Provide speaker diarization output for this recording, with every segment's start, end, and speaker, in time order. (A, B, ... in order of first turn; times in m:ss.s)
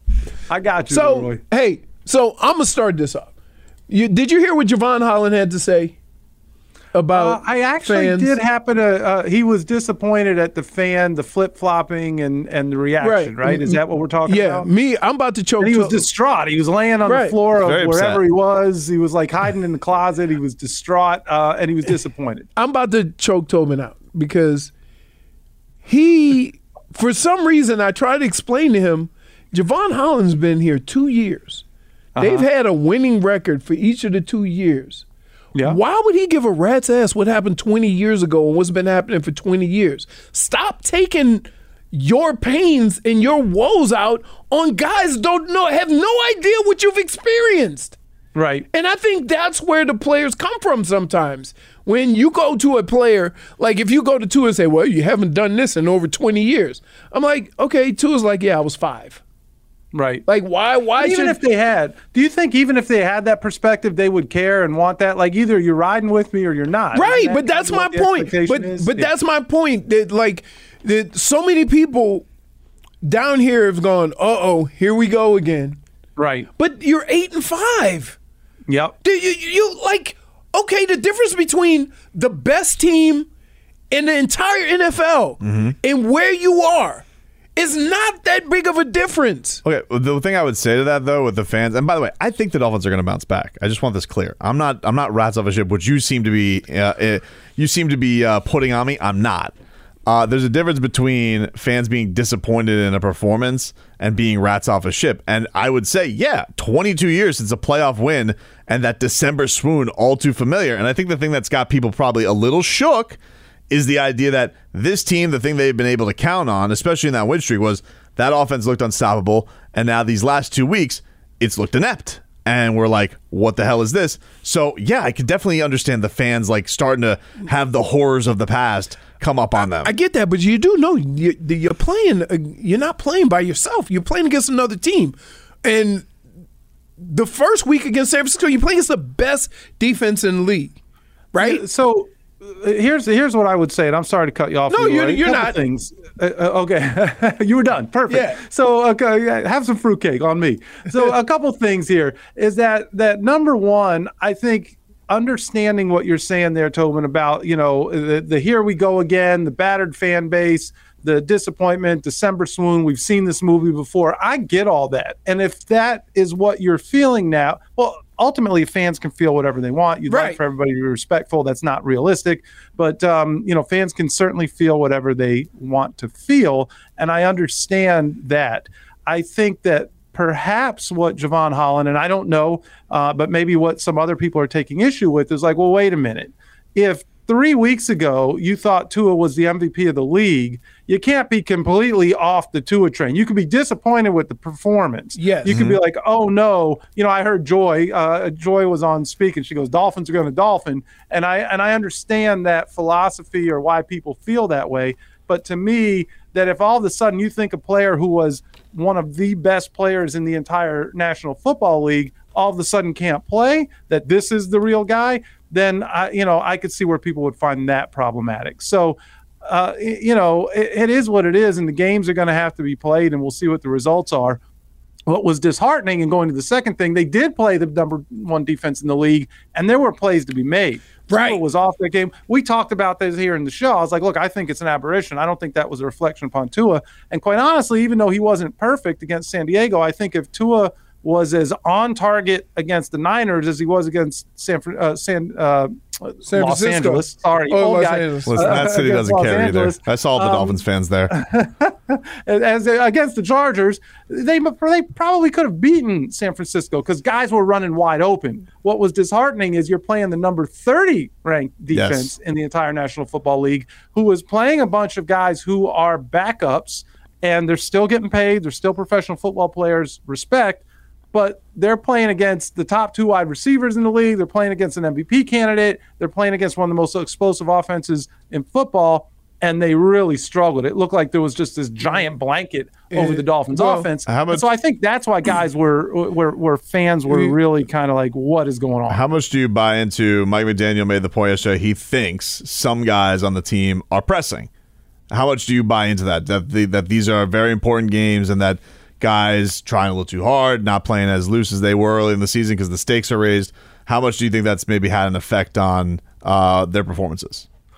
0:00.5-0:01.4 A
0:00.9-0:03.3 B
0:03.9-0:06.0 B
0:06.9-0:08.4 B
0:07.1-0:14.7 A
0:13.0-0:16.1 B
0:15.6-0:22.5 A
0:17.0-0:17.4 B
0:17.6-0:18.2 C
0:22.6-0:24.7 B
0:25.8-0:31.6 B
0:32.2-0:32.5 A
0:32.2-0:35.0 B
0:35.6-0:35.8 A
0:35.6-0:48.0 B
0:48.4-0:48.7 A
0:48.7-0:59.2 B
0:59.9-1:00.2 A
1:00.3-1:01.4 B
1:01.0-1:09.1 A
1:06.9-1:12.3 B
1:13.0-1:15.8 B
1:16.2-1:16.5 A
1:16.6-1:18.2 B
1:18.7-1:19.0 A
1:19.0-1:23.3 B
1:23.9-1:27.0 B
1:25.4-1:25.8 C
1:27.6-1:29.6 B
1:29.6-1:39.6 C
1:40.1-1:53.2 C
1:53.7-2:09.9 C
2:09.7-2:16.1 B
2:17.0-2:20.8 B
2:21.3-2:21.6 B
2:21.4-3:44.4 A
2:24.7-2:25.6 B
2:28.1-2:28.4 B
2:50.1-2:50.4 B
3:15.2-3:15.6 B
3:15.5-3:15.8 C
3:45.1-4:49.1 A
3:51.1-3:51.4 B
4:06.2-4:08.7 B
4:08.3-4:11.1 C
4:21.7-4:22.1 C
4:42.9-4:43.9 B
4:44.1-4:44.5 C
4:47.1-4:47.4 B
4:48.9-4:54.5 C
4:55.1-5:07.5 C